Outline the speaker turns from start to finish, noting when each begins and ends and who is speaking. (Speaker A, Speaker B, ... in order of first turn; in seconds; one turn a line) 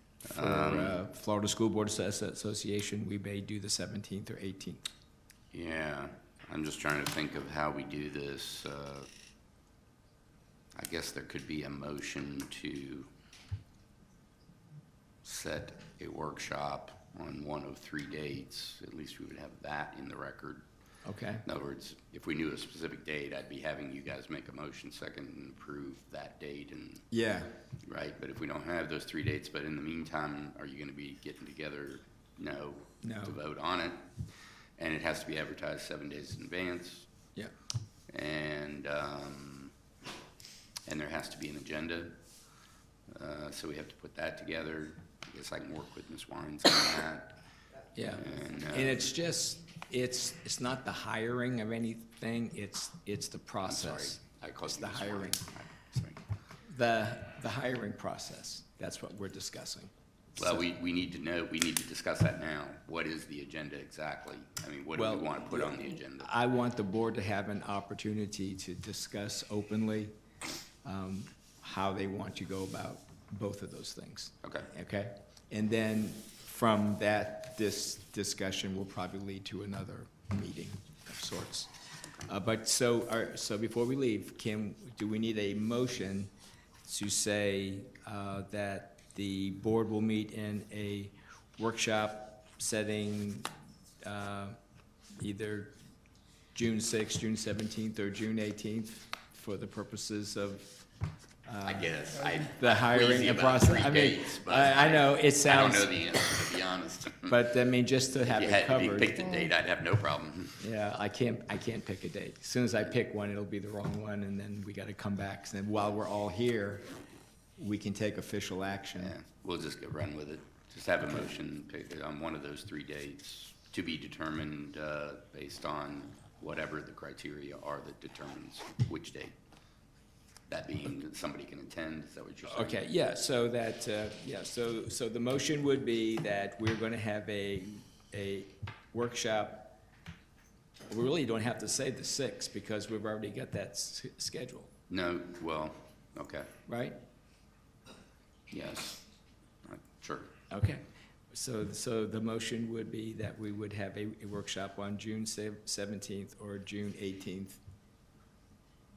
Speaker A: 0.2-1.0
Speaker B: 0.3-4.8
Speaker A: 5.5-9.1
Speaker A: 10.8-13.1
Speaker A: 15.2-20.6
Speaker B: 21.0-21.4
Speaker A: 21.4-27.1
Speaker B: 27.1-27.6
Speaker A: 27.9-34.2
Speaker B: 33.0-33.4
Speaker A: 34.8-37.1
Speaker A: 38.1-39.7
Speaker A: 40.9-42.2
Speaker A: 43.1-47.4
Speaker B: 47.9-55.4
Speaker A: 48.1-49.1
Speaker A: 53.6-56.2
Speaker B: 56.6-60.7
Speaker A: 60.4-66.3
Speaker B: 65.0-70.1
Speaker B: 70.8-86.3
Speaker A: 74.4-74.7
Speaker B: 86.8-93.5
Speaker B: 94.0-94.6
Speaker B: 95.2-95.7
Speaker B: 96.5-100.8
Speaker B: 101.4-106.4
Speaker A: 101.6-107.4
Speaker B: 107.3-109.4
Speaker A: 108.3-110.6
Speaker B: 110.6-116.9
Speaker B: 117.6-119.1
Speaker A: 119.0-129.3
Speaker A: 130.5-132.8
Speaker B: 132.5-139.7
Speaker B: 140.9-144.7
Speaker A: 144.9-146.5
Speaker B: 146.7-147.0
Speaker A: 148.5-149.1
Speaker A: 149.6-150.3
Speaker B: 150.5-157.6